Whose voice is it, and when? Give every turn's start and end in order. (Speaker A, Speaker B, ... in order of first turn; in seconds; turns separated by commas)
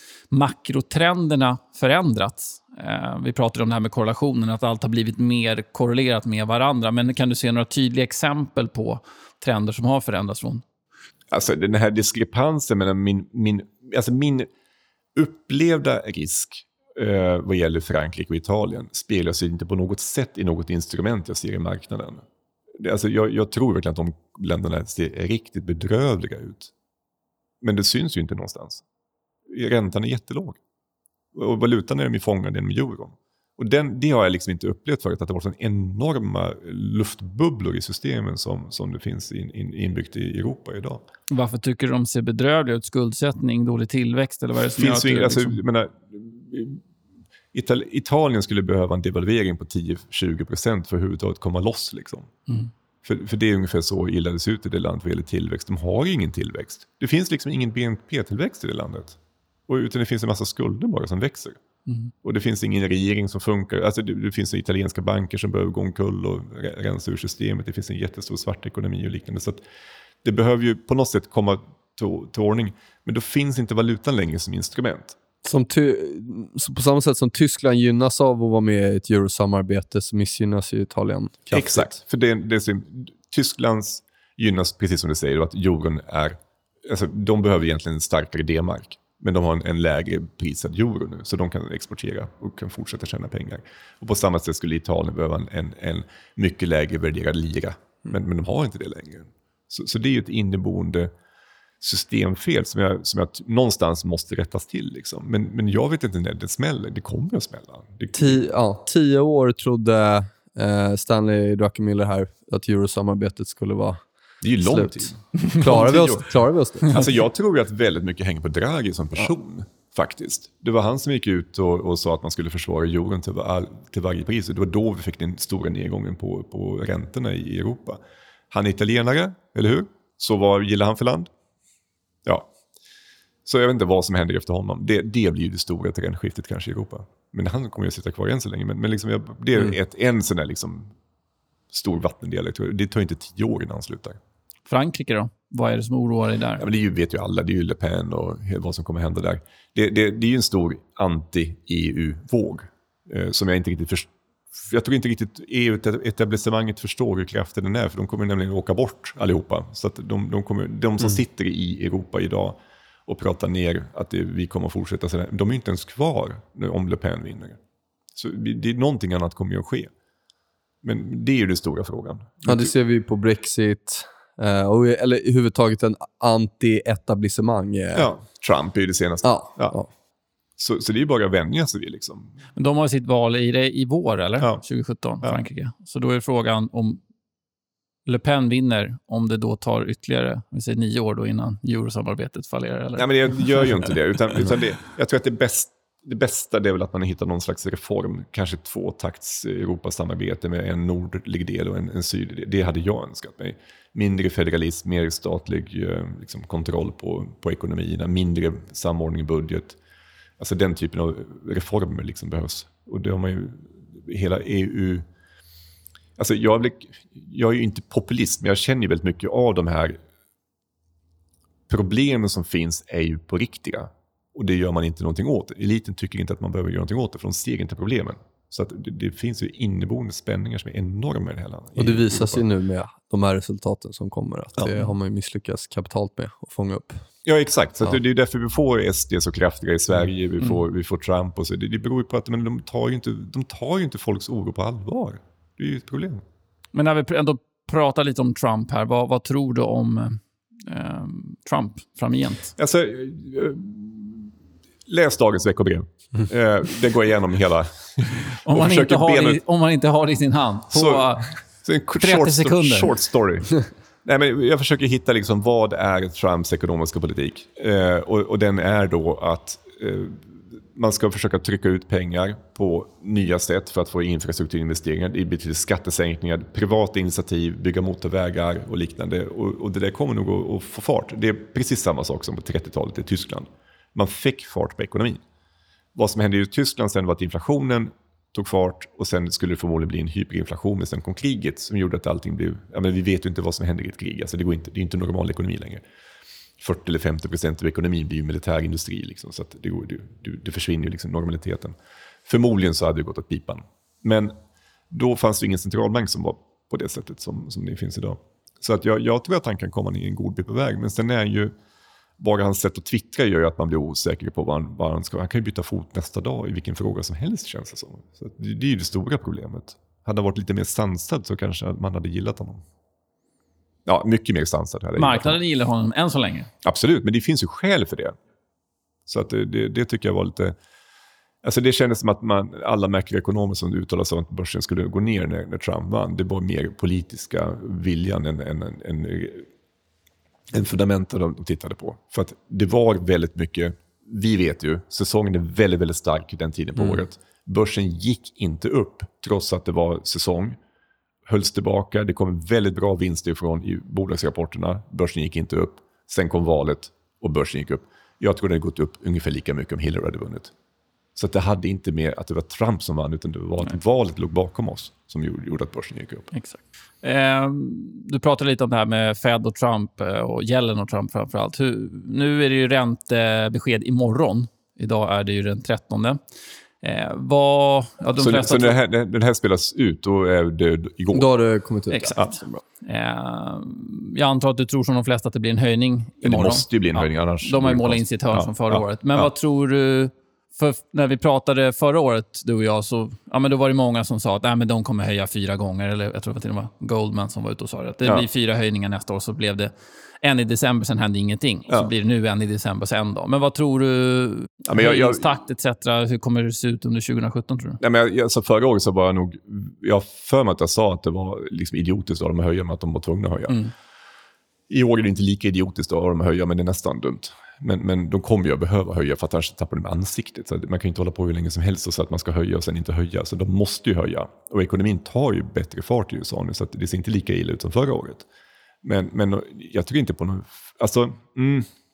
Speaker A: 0.3-10.6, Speaker B: 11.3-14.5, Speaker B: 15.1-22.2, Speaker B: 22.8-26.7, Speaker B: 27.6-28.8, Speaker B: 29.5-30.6, Speaker B: 31.3-41.0, Speaker A: 41.3-45.6, Speaker B: 44.7-46.8, Speaker B: 47.5-52.3, Speaker B: 53.0-61.6, Speaker B: 62.2-69.6, Speaker B: 70.2-75.2, Speaker C: 75.4-81.9, Speaker B: 81.5-101.1, Speaker B: 101.8-108.4, Speaker C: 108.1-114.0, Speaker B: 114.4-128.0, Speaker C: 114.6-117.0, Speaker B: 128.5-131.3, Speaker B: 132.2-132.5, Speaker B: 133.4-140.9, Speaker B: 141.7-144.2, Speaker A: 144.7-146.6, Speaker B: 146.6-167.6, Speaker B: 168.1-169.9, Speaker B: 170.8-172.7, Speaker C: 172.4-178.1, Speaker B: 177.9-179.8, Speaker C: 179.2-179.9, Speaker B: 180.6-182.3, Speaker A: 182.6-187.0, Speaker A: 188.1-193.8, Speaker B: 193.0-209.8, Speaker B: 210.4-215.0, Speaker B: 216.2-220.0, Speaker B: 221.7-232.4, Speaker C: 231.8-237.0, Speaker B: 237.2-246.2, Speaker A: 246.7-252.5, Speaker B: 252.6-254.3, Speaker B: 254.8-259.4, Speaker A: 258.4-261.4, Speaker B: 260.7-285.2, Speaker A: 262.0-262.9, Speaker B: 285.9-295.8, Speaker B: 296.6-304.3, Speaker B: 304.9-311.5, Speaker B: 312.2-322.6, Speaker B: 323.9-325.4, Speaker A: 325.0-326.5, Speaker B: 326.6-328.2, Speaker B: 329.1-330.5, Speaker B: 331.4-339.5, Speaker B: 340.5-350.6, Speaker B: 351.2-360.5, Speaker B: 361.1-366.3, Speaker A: 366.3-376.2, Speaker A: 376.8-378.8, Speaker B: 378.2-381.3, Speaker C: 381.1-382.6, Speaker A: 381.9-407.8, Speaker B: 386.2-389.3, Speaker B: 404.7-405.3, Speaker B: 407.8-413.6, Speaker B: 414.7-428.2, Speaker B: 428.8-431.7